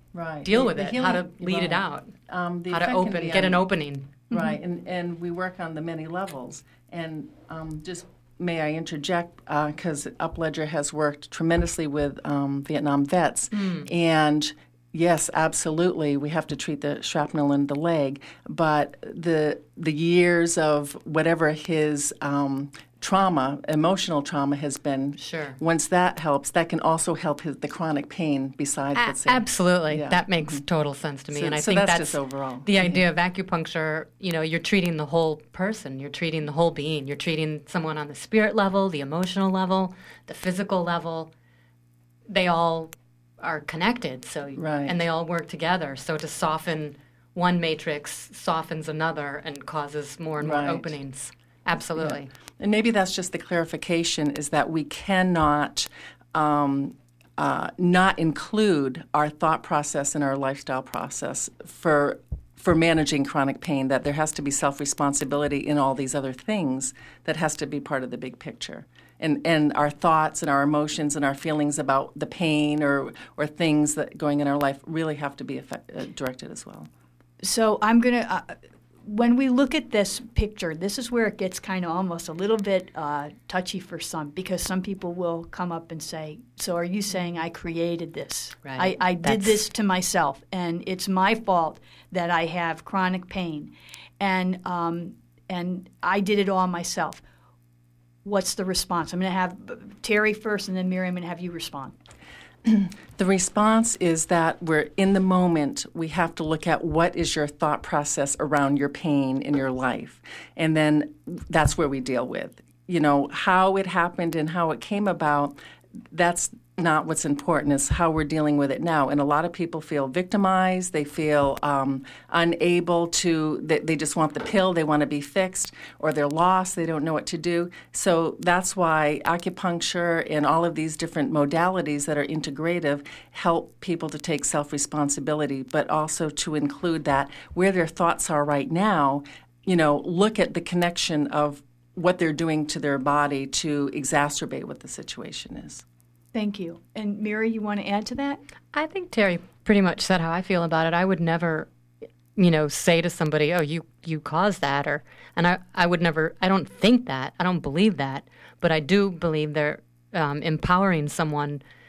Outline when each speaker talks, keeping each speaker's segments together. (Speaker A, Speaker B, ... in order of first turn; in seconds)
Speaker A: 0.1-3.6, 4.3-30.6, 31.3-33.0, 44.5-45.0, 50.4-50.9, 52.0-76.9, 102.6-115.6, 116.1-145.8
Speaker B: 0.4-2.1, 2.7-4.1, 13.5-13.9, 25.2-25.6, 28.9-41.3, 42.3-52.3, 88.6-89.6, 148.7-151.7, 152.3-161.6
Speaker C: 4.3-4.5, 77.4-97.2, 98.2-101.9, 146.3-148.4